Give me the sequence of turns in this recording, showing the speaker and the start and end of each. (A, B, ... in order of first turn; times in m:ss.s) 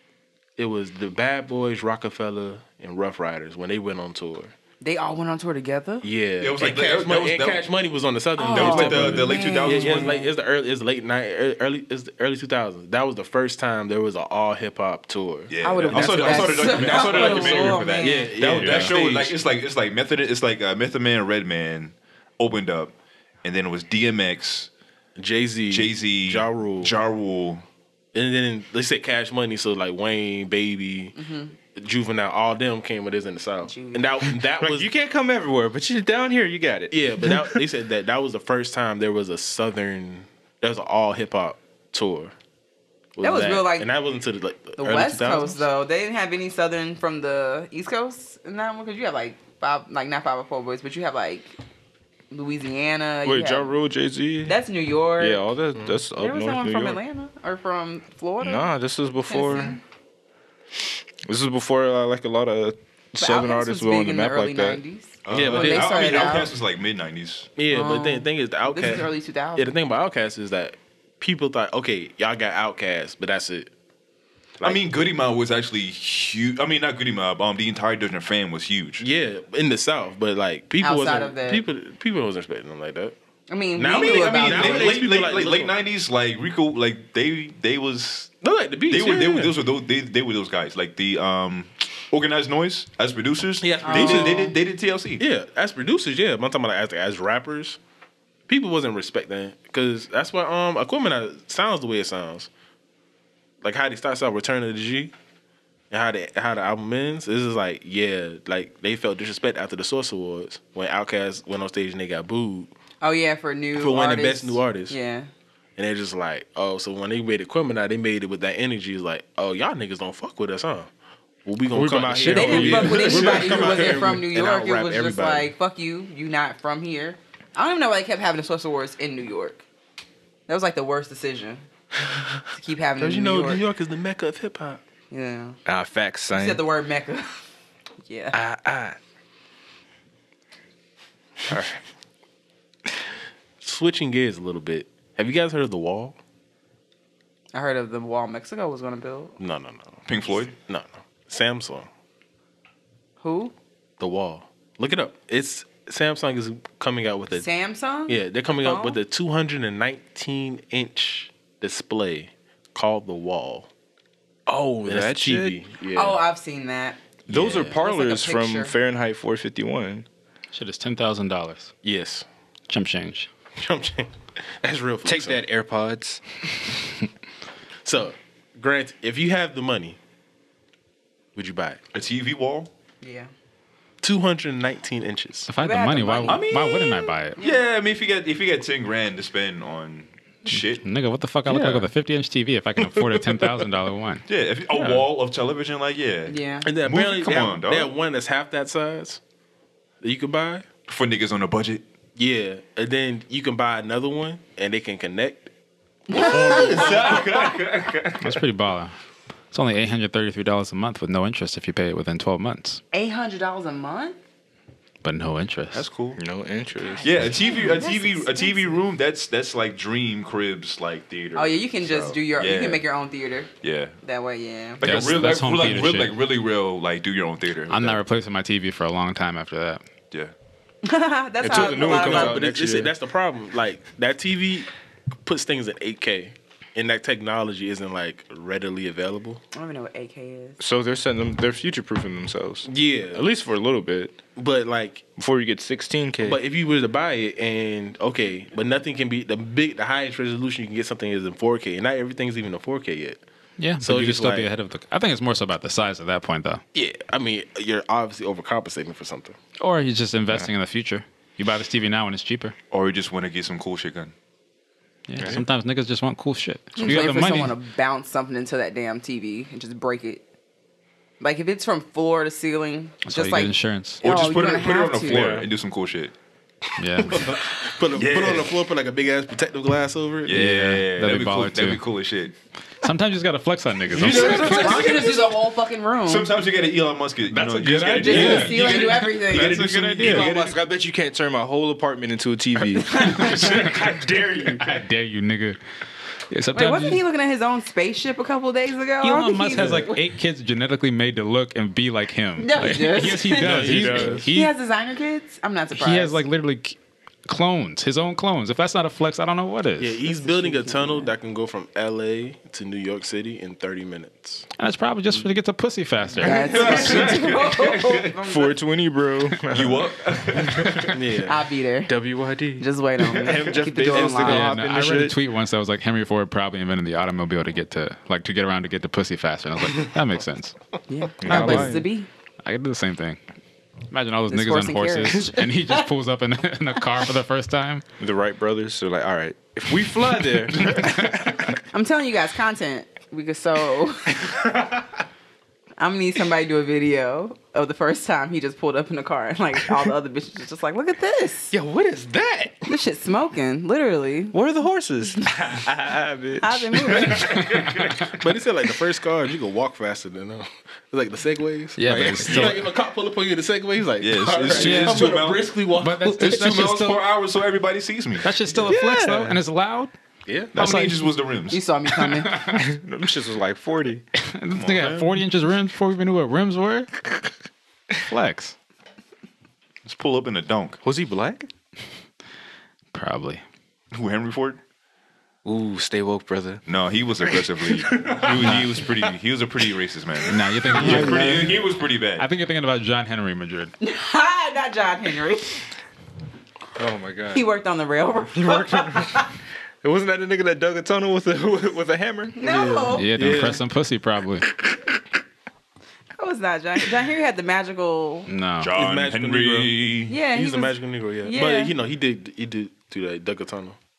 0:00.6-0:04.5 A
0:04.8-0:06.1 B
0:06.0-0:19.4 A
0:06.4-0:07.7 C
0:08.4-0:10.3 B
0:08.5-0:10.2 C
0:15.5-0:24.7 C
0:15.6-0:18.3 B
0:18.6-0:18.9 D
0:25.2-0:26.9 A
0:25.7-0:27.6 C
0:28.1-0:31.2 A
0:31.2-0:31.6 B
0:31.7-0:34.9 A
0:33.6-0:34.1 B
0:34.6-0:37.6 D
0:36.9-0:42.3 A
0:43.2-0:45.6 A
0:43.2-0:43.9 B
0:44.8-0:51.5 B
0:52.3-0:53.8 B
0:53.2-0:54.6 D
0:54.4-0:55.5 B
0:55.2-0:57.0 D
0:55.7-0:56.0 A
0:56.1-0:58.7 B
0:58.4-0:59.8 D
0:59.3-0:59.8 B
1:01.2-1:04.8 D
1:03.2-1:06.5 B
1:05.2-1:07.5 C
1:05.3-1:06.4 A
1:07.6-1:13.7 A
1:07.7-1:09.7 B
1:14.6-1:19.0 C
1:19.0-1:23.1 A
1:20.8-1:21.6 B
1:23.5-1:25.0 B
1:23.8-1:25.7 A
1:23.9-1:28.3 C
1:28.4-1:29.5 A
1:28.9-1:35.2 C
1:33.6-1:34.5 A
1:33.8-1:34.5 B
1:35.2-1:37.8 A
1:38.5-1:42.5 A
1:43.6-1:45.1 A
1:45.9-1:52.7 A
1:53.0-1:55.3 B
1:53.7-1:55.0 A
1:55.8-2:00.9 A
2:01.4-2:05.5 A
2:01.7-2:03.9 D
2:02.3-2:09.6 B
2:10.5-2:11.6 B
2:12.6-2:13.6 B
2:13.0-2:14.8 A
2:15.1-2:15.6 B
2:15.6-2:16.6 D
2:16.3-2:17.4 B
2:18.0-2:18.4 B
2:18.3-2:19.0 D
2:21.5-2:21.7 D
2:23.6-2:26.2 A
2:27.5-2:29.4 B
2:29.4-2:31.9 A
2:30.0-2:30.5 C
2:33.2-2:33.5 B
2:34.0-2:37.5 A
2:37.3-2:39.0 B
2:38.1-2:43.7 A
2:44.5-2:45.6 D
2:44.8-2:46.2 A
2:45.9-2:48.7 B
2:47.3-2:50.0 D
2:47.3-2:47.8 A
2:50.5-2:51.7 E
2:51.8-2:52.2 A
2:52.7-2:53.3 E
2:53.6-2:55.4 A
2:55.0-2:56.2 D
2:57.8-3:00.0 A
3:01.3-3:01.8 A
3:01.9-3:02.7 C
3:03.0-3:03.3 B
3:04.0-3:05.5 A
3:05.5-3:07.4 E
3:05.6-3:06.5 B
3:06.2-3:10.8 C
3:07.4-3:07.6 B
3:10.5-3:14.2 E
3:14.3-3:17.9 C
3:14.7-3:15.0 E
3:16.3-3:16.7 B
3:16.6-3:19.2 A
3:20.0-3:20.6 A
3:20.9-3:21.8 C
3:22.2-3:25.5 A
3:26.1-3:27.2 B
3:26.1-3:28.4 C
3:26.1-3:27.2 A
3:28.2-3:29.0 E
3:29.5-3:32.8 E
3:32.9-3:34.2 B
3:35.0-3:35.8 E
3:35.7-3:36.2 C
3:36.2-3:37.3 D
3:36.9-3:38.8 B
3:37.0-3:42.8 C
3:41.3-3:43.5 B
3:43.6-3:44.0 C
3:44.0-3:44.8 B
3:44.8-3:48.0 C
3:44.8-3:46.2 E
3:47.7-3:49.8 E
3:50.8-3:52.4 B
3:51.4-3:52.9 D
3:51.5-3:54.7 A
3:55.2-3:59.4 A
3:59.5-4:00.6 B
4:00.6-4:04.2 D
4:02.6-4:03.2 A
4:04.4-4:05.0 A
4:05.2-4:06.4 D
4:06.2-4:13.2 A
4:13.6-4:16.6 E
4:13.8-4:14.5 A
4:16.7-4:19.4 A
4:19.6-4:22.5 E
4:22.7-4:24.1 C
4:25.1-4:27.5 E
4:25.2-4:25.4 D
4:26.8-4:30.2 B
4:31.2-4:35.3 B
4:33.0-4:34.0 E
4:34.0-4:36.1 C
4:35.1-4:35.4 E
4:36.8-4:37.3 E
4:37.0-4:40.4 A
4:37.9-4:38.6 C
4:40.2-4:42.3 C
4:40.3-4:41.8 E
4:42.8-4:44.9 E
4:43.9-4:45.3 C
4:44.0-4:46.3 B
4:44.1-4:44.7 D
4:44.1-4:44.6 A
4:46.0-4:50.5 C
4:47.3-4:48.8 D
4:48.0-4:49.7 B
4:48.0-4:48.8 E
4:49.3-4:50.2 E
4:49.4-4:54.8 D
4:52.8-4:53.6 B
4:53.0-4:53.9 E
4:54.4-4:55.6 E
4:56.3-4:57.0 E
4:56.5-5:00.0 B
4:59.0-5:04.5 E
5:02.4-5:03.6 B
5:03.3-5:04.3 D
5:03.4-5:04.3 A
5:04.3-5:06.2 B
5:05.8-5:10.0 E
5:09.8-5:14.5 A
5:10.2-5:11.1 B
5:14.6-5:16.8 E
5:16.2-5:18.2 C
5:16.2-5:18.6 B
5:18.2-5:20.9 D
5:19.5-5:21.0 C
5:20.9-5:21.4 A
5:21.2-5:21.9 B
5:21.9-5:25.2 D
5:22.6-5:24.5 B
5:24.2-5:30.6 E
5:30.9-5:32.1 B
5:31.2-5:31.9 D
5:31.2-5:31.8 E
5:32.4-5:33.2 E
5:33.9-5:37.8 E
5:34.3-5:35.8 B
5:38.0-5:41.6 D
5:40.7-5:40.9 E
5:41.7-5:44.4 B
5:45.8-5:51.5 B
5:51.5-5:52.7 D
5:52.7-5:54.3 B
5:54.3-5:57.6 D
5:56.4-5:57.5 B
5:58.1-6:06.5 A
6:01.8-6:02.7 E
6:02.2-6:02.6 D
6:04.0-6:05.6 C
6:04.5-6:05.1 E
6:05.7-6:07.0 E
6:06.2-6:08.3 C
6:08.2-6:09.9 E
6:08.5-6:09.4 D
6:10.3-6:10.6 A
6:10.5-6:11.6 C
6:10.5-6:11.1 E
6:11.5-6:12.4 B
6:11.9-6:12.6 E
6:12.5-6:14.0 D
6:14.2-6:17.1 E
6:14.5-6:15.2 C
6:18.0-6:18.5 E
6:19.8-6:20.8 C
6:20.8-6:21.5 D
6:22.9-6:23.4 E
6:23.9-6:24.6 C
6:25.4-6:26.6 D
6:26.6-6:32.3 C
6:27.2-6:28.6 D
6:28.4-6:28.7 E
6:30.2-6:31.6 E
6:30.8-6:31.6 D
6:30.8-6:31.4 B
6:32.2-6:33.7 E
6:33.8-6:35.6 B
6:36.8-6:37.4 D
6:37.3-6:39.3 B
6:38.3-6:39.2 D
6:39.8-6:42.4 D
6:42.4-6:43.1 B
6:42.4-6:43.6 A
6:42.9-6:44.5 E
6:46.2-6:48.3 B
6:48.3-6:48.7 E
6:48.6-6:50.2 C
6:48.7-6:53.8 A
6:50.1-6:51.7 B